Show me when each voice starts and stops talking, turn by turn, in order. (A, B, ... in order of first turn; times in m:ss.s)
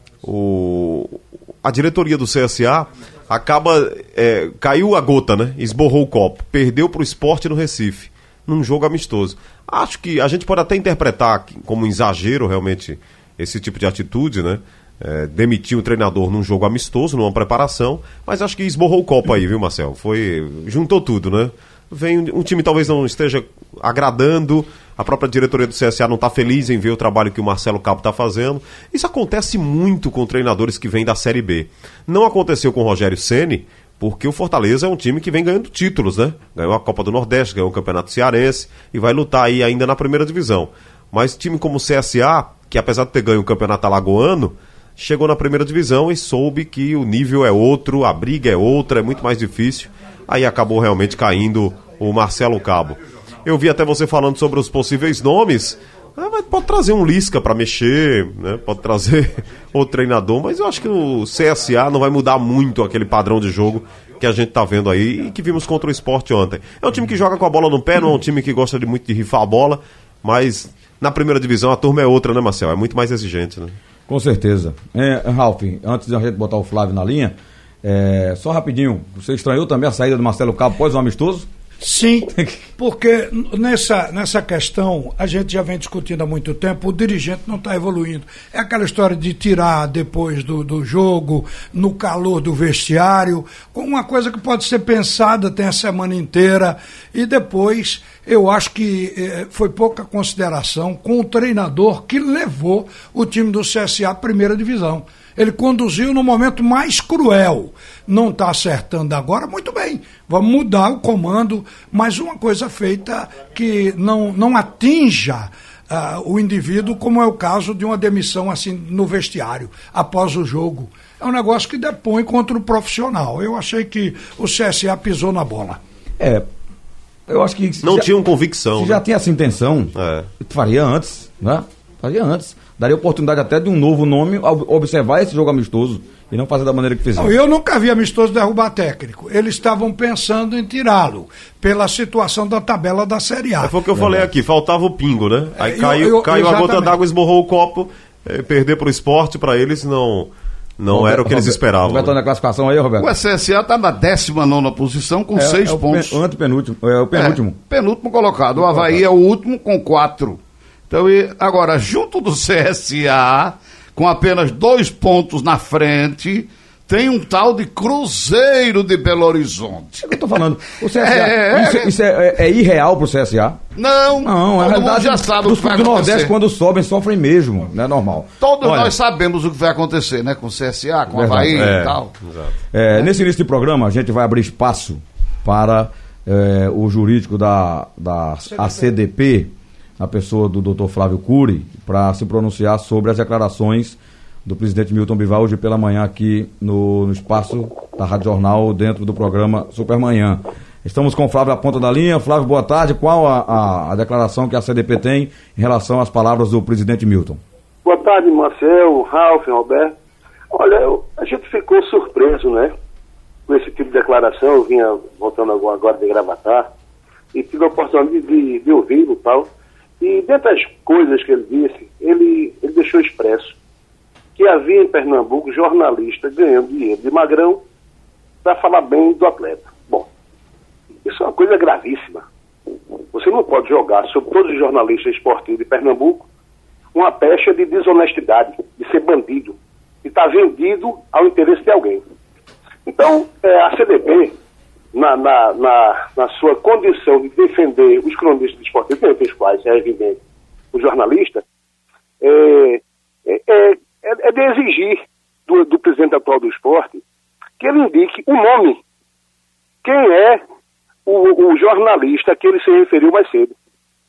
0:00.2-1:13.8 A
1:14.1-1:21.5 B
1:21.8-2:05.8 C
1:22.3-1:22.6 B
2:06.2-2:06.4 B
2:07.3-2:08.1 B
2:07.8-2:09.0 A
2:08.7-2:17.4 B
2:09.9-2:10.3 A
2:17.1-2:23.7 C
2:23.6-2:32.1 A
2:23.9-2:24.3 B
2:25.6-2:27.0 C
2:30.9-2:33.1 B
2:33.0-2:36.2 D
2:35.3-2:37.6 B
2:37.1-2:40.4 D
2:38.6-2:39.0 B
2:40.9-2:50.1 D
2:50.0-2:53.6 B
2:50.9-2:51.9 D
2:53.8-2:56.3 D
2:54.2-2:58.9 B
2:58.4-3:02.1 D
3:01.1-3:01.8 B
3:01.5-3:02.5 A
3:02.7-3:27.4 B
3:27.8-3:29.9 E
3:30.5-3:32.7 E
3:33.5-3:36.7 E
3:37.3-3:39.5 E
3:40.0-3:43.5 E
3:44.4-3:47.6 E
3:48.4-3:50.1 E
3:51.0-3:52.2 E
3:53.1-3:56.3 E
3:56.9-4:02.0 E
4:02.8-4:04.3 E
4:04.9-4:10.2 E
4:10.7-4:11.4 E
4:12.2-4:17.0 E
4:17.6-4:18.8 E
4:19.8-4:20.4 E
4:21.0-4:23.5 E